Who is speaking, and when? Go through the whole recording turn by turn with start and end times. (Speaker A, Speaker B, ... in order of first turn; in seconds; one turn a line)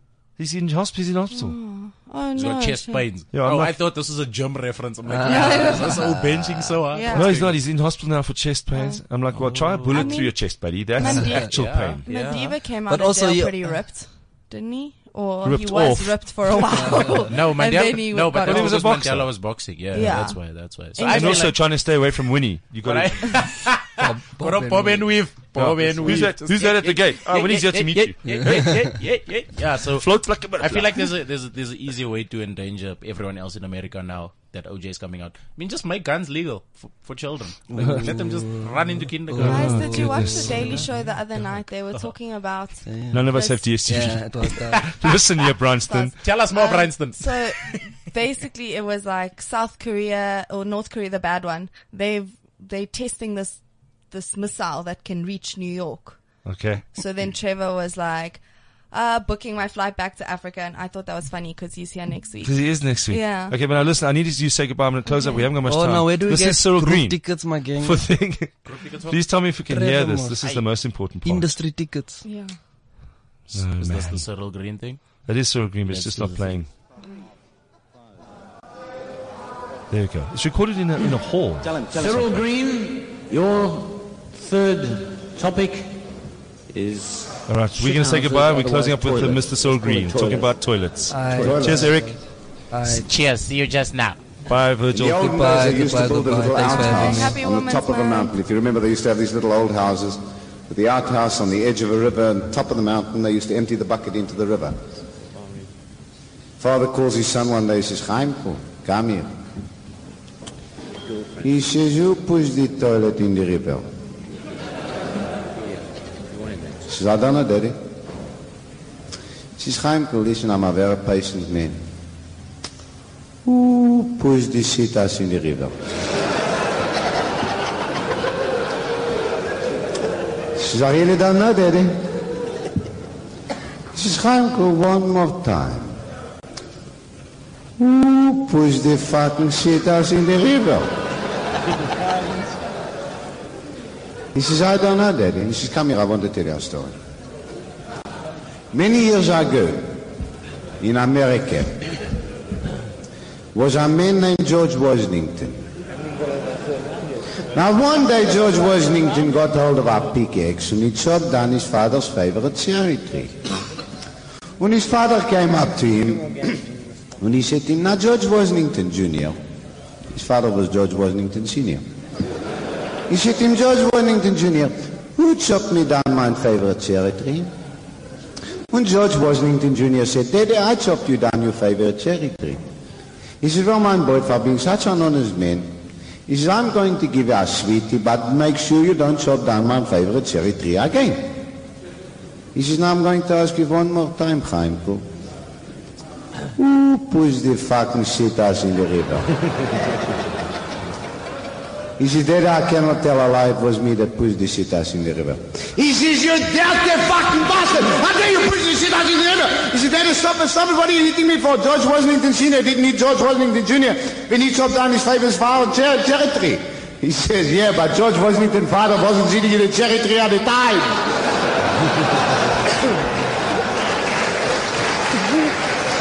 Speaker A: 0.4-1.6
Speaker B: 1.3-3.0
Speaker C: 2.3-7.6
Speaker A: 3.3-3.7
Speaker D: 5.0-6.8
Speaker B: 5.2-6.0
Speaker B: 6.9-7.4
Speaker A: 7.1-12.0
Speaker B: 8.7-9.0
Speaker C: 9.3-10.2
Speaker B: 9.9-18.9
Speaker C: 11.5-12.6
Speaker D: 12.9-13.8
Speaker A: 15.4-16.9
Speaker D: 16.7-17.3
Speaker C: 17.3-21.6
Speaker A: 18.4-19.3
Speaker B: 19.9-21.6
Speaker A: 21.0-23.5
Speaker C: 22.8-40.9
Speaker D: 24.0-26.3
Speaker A: 25.5-28.9
Speaker D: 28.2-28.9
Speaker A: 29.8-31.1
Speaker D: 37.7-40.8
Speaker A: 37.8-38.1
Speaker A: 39.4-40.8
Speaker B: 39.4-43.6
Speaker D: 42.9-43.2
Speaker A: 43.1-46.1
Speaker D: 43.8-44.8
Speaker C: 44.6-45.6
Speaker B: 45.9-53.6
Speaker C: 46.2-47.9
Speaker B: 54.1-56.2
Speaker A: 56.4-56.9
Speaker B: 56.9-63.5
Speaker A: 62.4-67.2
Speaker B: 65.1-65.5
Speaker D: 65.6-68.0
Speaker A: 67.8-71.5
Speaker C: 68.6-69.2
Speaker D: 69.7-70.4
Speaker D: 71.2-72.2
Speaker B: 72.2-72.5
Speaker C: 73.5-75.0
Speaker A: 73.5-74.2
Speaker A: 75.2-76.7
Speaker C: 75.8-76.6
Speaker A: 79.9-82.4
Speaker E: 81.6-86.0
Speaker E: 86.7-90.5
Speaker A: 87.5-92.2
Speaker D: 91.1-93.1
Speaker E: 91.3-91.9
Speaker F: 91.4-92.0
Speaker C: 92.8-94.2
Speaker A: 94.5-95.7
Speaker F: 94.9-104.8
Speaker D: 95.2-97.4
Speaker B: 96.5-98.3
Speaker F: 106.6-109.3
Speaker F: 111.4-113.8
Speaker F: 116.9-117.8
Speaker F: 119.6-121.8
Speaker F: 123.4-125.7
Speaker F: 130.6-132.0
Speaker F: 133.9-136.0
Speaker F: 137.8-140.9
Speaker F: 144.3-146.9
Speaker F: 148.7-149.9
Speaker F: 150.8-151.8
Speaker F: 153.5-155.6
Speaker F: 157.5-163.5
Speaker F: 164.6-166.6
Speaker F: 167.2-169.4
Speaker F: 170.1-171.8
Speaker F: 173.1-177.5
Speaker F: 178.7-182.6
Speaker F: 183.4-185.7
Speaker F: 186.3-191.3
Speaker F: 192.5-195.1
Speaker F: 196.6-199.3
Speaker F: 202.0-221.0